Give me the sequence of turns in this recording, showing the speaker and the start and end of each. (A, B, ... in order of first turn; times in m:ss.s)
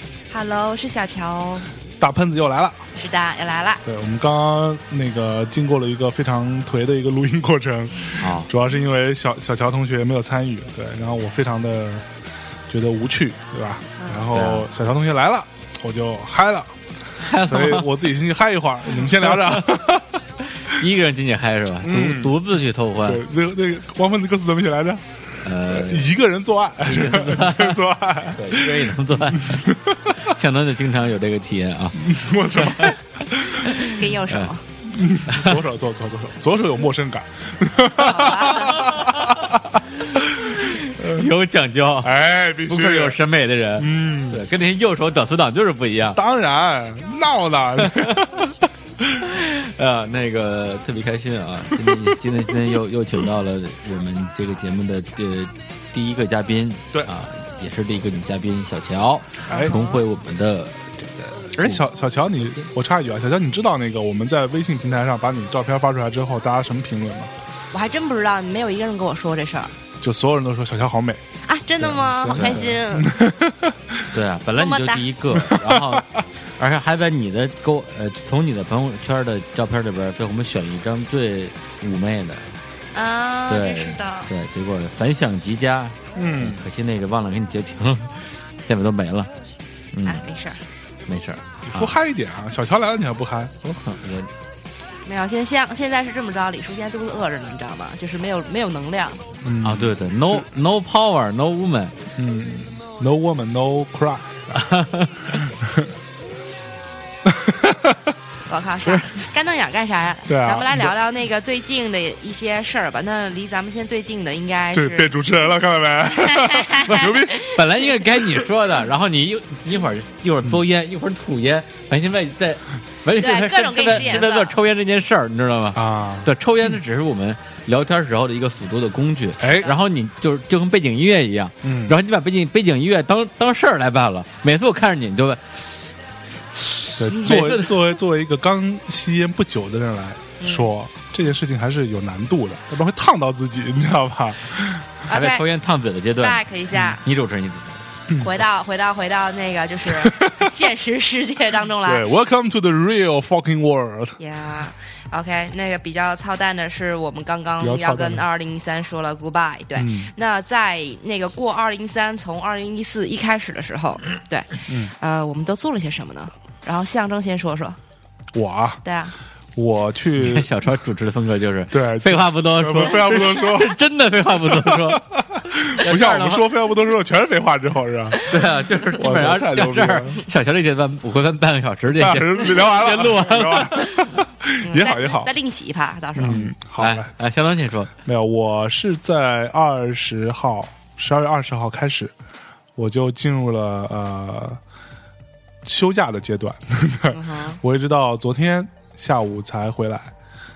0:00.3-0:01.7 A
0:02.0-0:02.8 B
0:03.0-0:03.8 A
0:03.8-0:12.0 B
0:08.0-0:08.5 C
0:12.7-0:16.7 B
0:14.0-0:14.3 A
0:14.3-0:14.7 C
0:17.3-0:17.9 C
0:17.3-0:20.2 B
0:19.1-0:19.6 C
0:20.7-0:23.2 C
0:21.8-0:30.3 B
0:25.4-0:26.1 C
0:26.9-0:27.8 C
0:28.4-0:29.6 C
0:30.2-0:32.0 C
0:32.0-0:33.6 B
0:32.6-0:33.0 C
0:33.7-0:34.6 A
0:34.8-0:41.3 B
0:35.3-0:35.6 C
0:38.0-0:38.8 A
0:38.8-0:39.3 C
0:40.5-0:46.2 C
0:42.0-0:43.2 B
0:43.8-0:44.4 B
0:46.1-0:48.5 B
0:47.8-0:48.4 C
0:49.2-1:01.8 C
0:59.5-0:59.7 B
0:59.5-1:00.0 A
1:01.6-1:07.3 B
1:07.7-1:09.7 A
1:10.0-1:11.2 B
1:11.5-1:13.1 A
1:11.8-1:14.1 B
1:12.3-1:12.7 C
1:14.1-1:22.5 C
1:14.6-1:15.0 A
1:15.3-1:16.0 B
1:22.9-1:24.3 A
1:23.5-1:29.3 C
1:26.2-1:26.6 B
1:29.9-1:30.2 C
1:30.0-1:30.6 A
1:31.1-1:32.0 C
1:31.6-1:33.5 B
1:33.6-1:34.3 C
1:35.0-1:39.2 A
1:39.4-1:40.4 B
1:39.6-1:42.0 C
1:42.2-1:44.4 B
1:44.5-1:45.5 C
1:45.6-1:45.9 B
1:47.3-1:48.1 B
1:48.5-1:55.1 A
1:50.3-1:50.9 B
1:54.7-1:57.4 B
1:56.2-1:57.9 A
1:56.9-2:15.7 C
2:03.2-2:04.6 A
2:05.7-2:06.3 B
2:09.4-2:09.7 B
2:11.6-2:12.0 B
2:16.6-2:17.8 C
2:17.0-2:25.1 B
2:20.4-2:20.7 A
2:25.1-2:25.4 A
2:25.1-2:27.8 C
2:26.2-2:27.0 A
2:28.2-2:32.1 A
2:29.9-2:30.6 B
2:31.8-2:34.2 B
2:34.2-2:47.8 A
2:37.6-2:38.3 B
2:39.8-2:40.1 B
2:48.3-2:48.8 B
2:48.8-2:49.1 A
2:49.6-2:50.5 B
2:50.2-2:56.5 C
2:51.7-2:53.8 B
2:54.5-2:58.3 B
2:58.3-3:04.1 C
2:59.0-3:00.2 B
3:02.0-3:05.3 B
3:04.6-3:06.4 A
3:06.2-3:07.1 B
3:06.3-3:07.9 C
3:08.0-3:12.1 B
3:12.8-3:14.6 B
3:15.6-3:20.1 B
3:17.1-3:17.6 A